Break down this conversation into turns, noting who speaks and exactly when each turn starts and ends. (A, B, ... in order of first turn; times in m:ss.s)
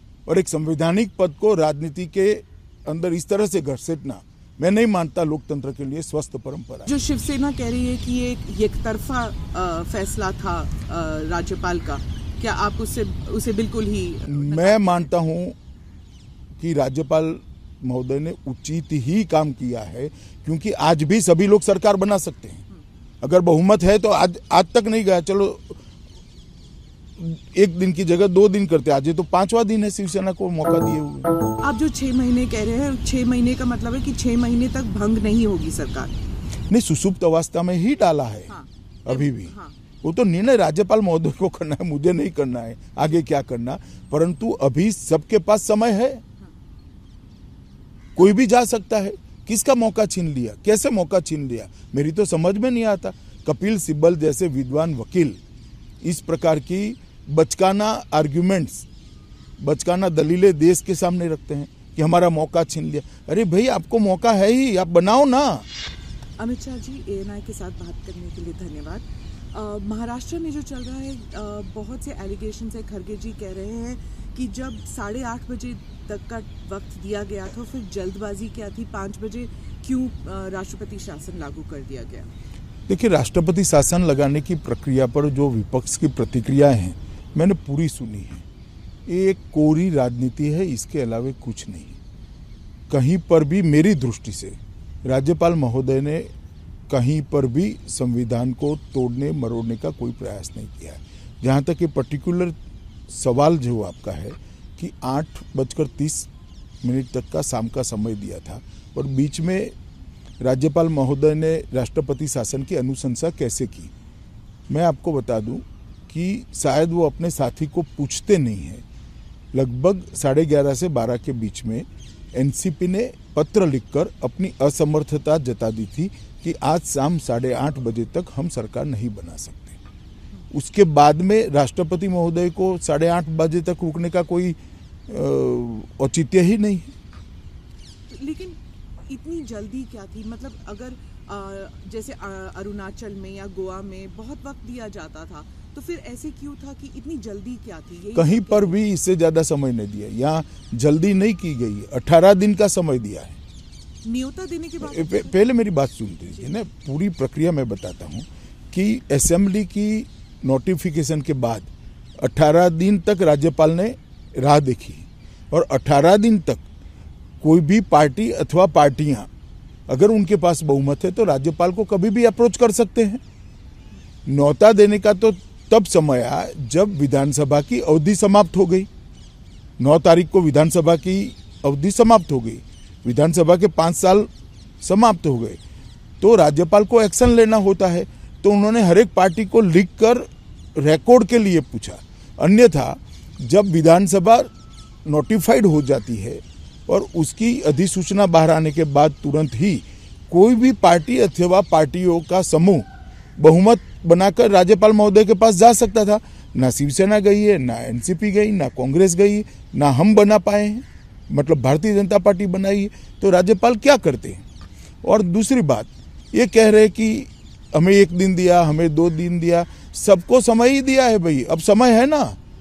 0:00.3-0:06.9 A
0:06.9-0:15.1 B
0:14.3-0:15.6 A
0:16.6-0:22.6 A
0:23.2-0:25.8 A
0:27.2-0:31.3 A
0:31.6-0:36.1 B
0:36.7-0:38.5 A
0:38.5-0:39.8 B
0:39.0-0:46.2 A
0:48.2-0:55.4 A
0:56.0-0:58.9 A
0:59.6-1:05.7 A
1:06.4-1:22.3 B
1:22.9-1:28.4 A
1:29.1-1:32.0 A
1:32.9-1:36.3 A
1:36.9-1:42.6 A
1:43.1-1:46.3 A
1:46.8-1:49.7 A
1:50.4-1:53.9 A
1:54.7-1:58.8 A
1:59.5-2:09.8 A
2:10.5-2:14.6 A
2:15.1-2:16.9 A
2:18.1-2:28.8 B
2:28.2-2:33.4 A
2:34.0-2:35.4 B
2:34.8-2:46.6 A
2:47.4-2:49.3 A
2:49.9-2:53.2 A
2:54.3-2:58.9 A
2:59.8-3:04.3 A
3:04.8-3:05.6 A
3:06.2-3:14.5 A
3:15.1-3:34.4 A
3:35.0-3:42.4 A